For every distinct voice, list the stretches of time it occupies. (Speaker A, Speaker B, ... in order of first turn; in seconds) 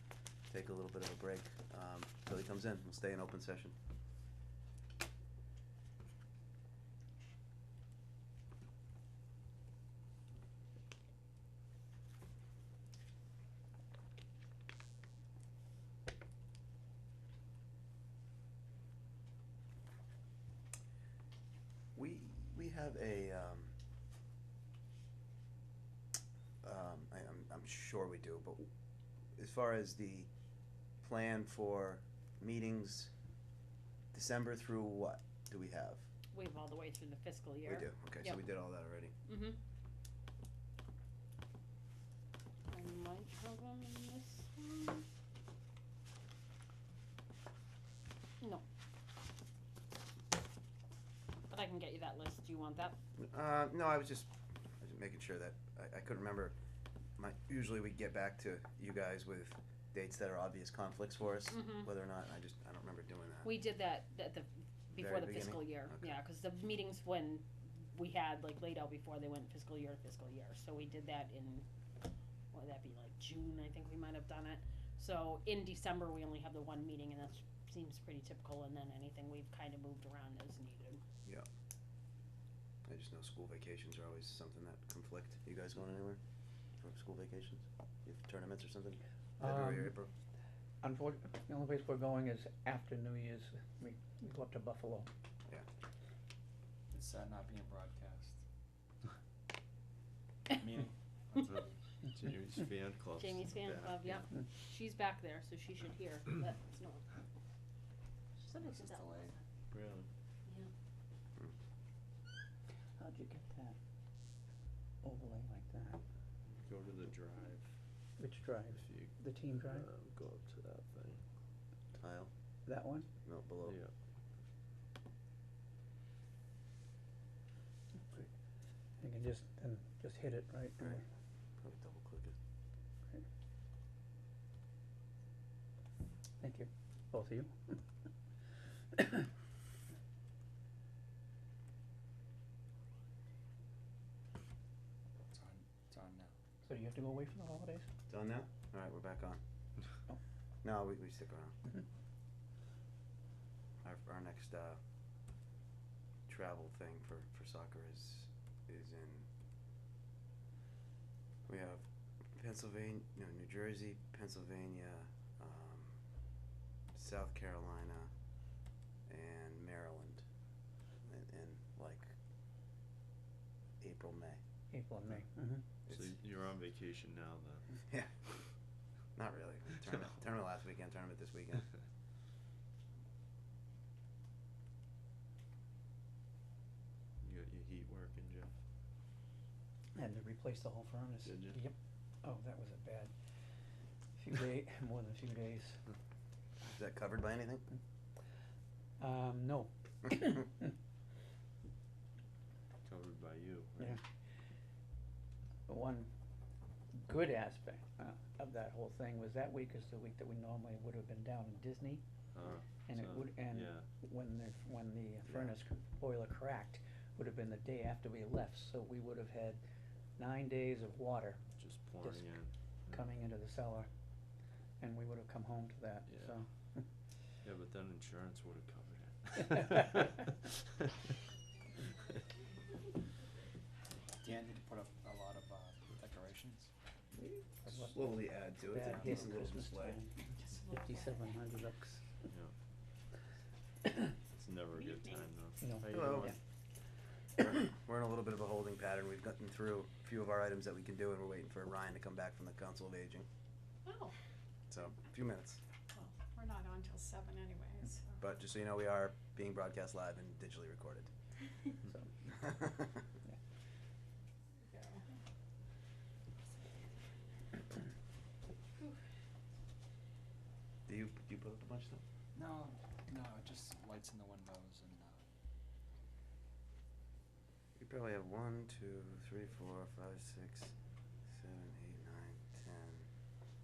Speaker A: 0.5-3.7, 21.9-23.7, 26.6-28.7, 29.4-30.3, 31.0-33.1, 34.1-36.1, 37.6-39.1, 53.2-54.3, 54.8-56.5, 57.2-63.5, 64.9-66.2, 82.8-86.2, 86.8-90.1, 122.0-122.3, 123.2-123.8, 131.6-132.3, 148.1-149.4, 150.6-151.5, 153.8-154.8, 156.3-159.3, 161.5-166.0, 166.9-168.1, 169.1-170.2, 171.1-172.1, 173.8-174.4, 179.2-181.7, 196.7-197.7, 215.3-215.5, 237.8-240.0, 245.9-246.3, 247.4-253.3, 254.7-255.6, 258.2-261.1, 262.4-263.0, 270.9-272.0, 277.8-280.7, 281.3-283.1
Speaker B: 36.3-38.4, 39.3-39.6, 42.7-45.0, 51.5-53.0, 61.5-61.9, 63.4-71.7, 72.5-81.0, 103.2-107.2, 108.4-109.4
Speaker C: 89.4-90.0, 90.8-95.1, 113.0-113.8, 115.0-116.0, 118.2-119.9, 122.7-123.1, 129.0-131.0, 136.4-137.8, 138.9-139.3, 146.6-147.8, 174.7-175.6, 189.9-193.1, 194.2-195.8, 199.0-200.7, 205.7-206.1, 207.0-212.0, 212.9-219.6, 220.2-221.4, 222.0-223.9, 224.8-226.9, 237.2-240.1, 240.7-242.2, 245.6-246.3
Speaker D: 96.9-98.4, 100.5-101.7, 108.5-109.4, 145.3-146.3, 234.2-236.7, 238.8-239.2, 272.3-275.2
Speaker E: 101.5-104.3, 109.7-110.1, 116.5-117.7, 118.7-121.2, 123.6-123.9, 175.9-177.6, 187.2-188.5, 191.2-191.6, 202.8-204.0, 212.3-213.9, 221.6-223.0, 226.1-226.3, 227.4-230.4, 242.3-242.5, 244.3-246.3
Speaker F: 240.1-241.4, 244.8-245.2, 253.8-254.1, 255.9-258.1, 264.6-265.0